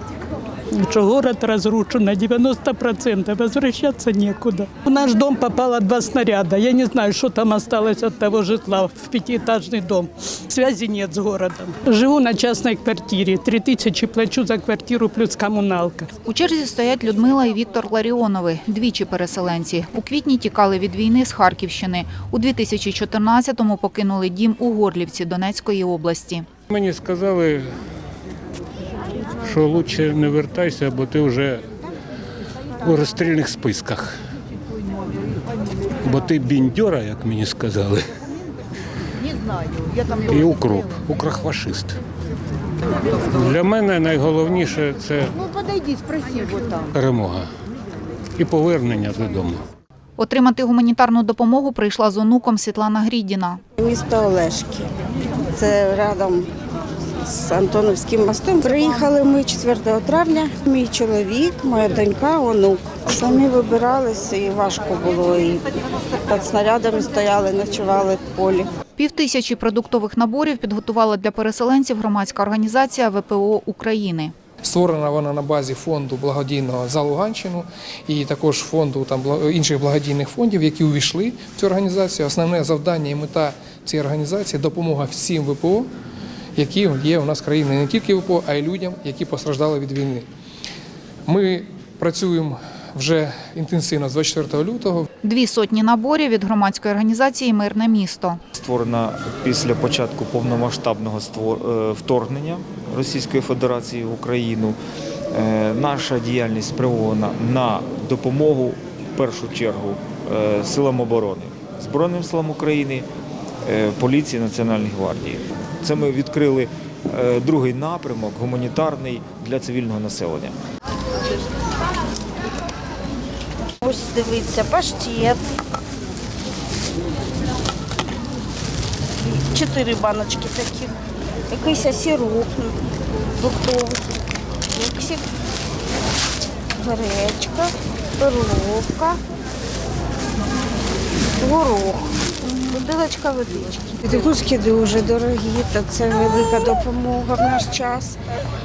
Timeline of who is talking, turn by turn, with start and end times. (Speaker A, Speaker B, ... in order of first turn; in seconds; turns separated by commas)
Speaker A: 0.7-16.1, Speaker B: 16.2-26.4, Speaker C: 26.7-27.6, Speaker C: 29.4-31.6, Speaker C: 32.8-34.1, Speaker C: 36.0-38.1, Speaker C: 40.1-42.0, Speaker C: 43.3-45.4, Speaker C: 46.9-47.5, Speaker C: 48.4-49.6, Speaker B: 50.2-53.6, Speaker D: 53.8-54.9, Speaker D: 55.5-56.5, Speaker D: 57.2-68.7, Speaker B: 69.0-74.3, Speaker E: 74.6-85.9, Speaker E: 86.6-90.2, Speaker E: 91.3-95.0, Speaker B: 95.2-98.4, Speaker F: 98.5-104.8, Speaker F: 105.3-113.1, Speaker F: 113.6-120.6, Speaker D: 123.8-125.4, Speaker D: 129.2-130.9, Speaker D: 131.5-132.8, Speaker D: 133.3-135.2, Speaker D: 136.8-139.2, Speaker D: 141.4-148.2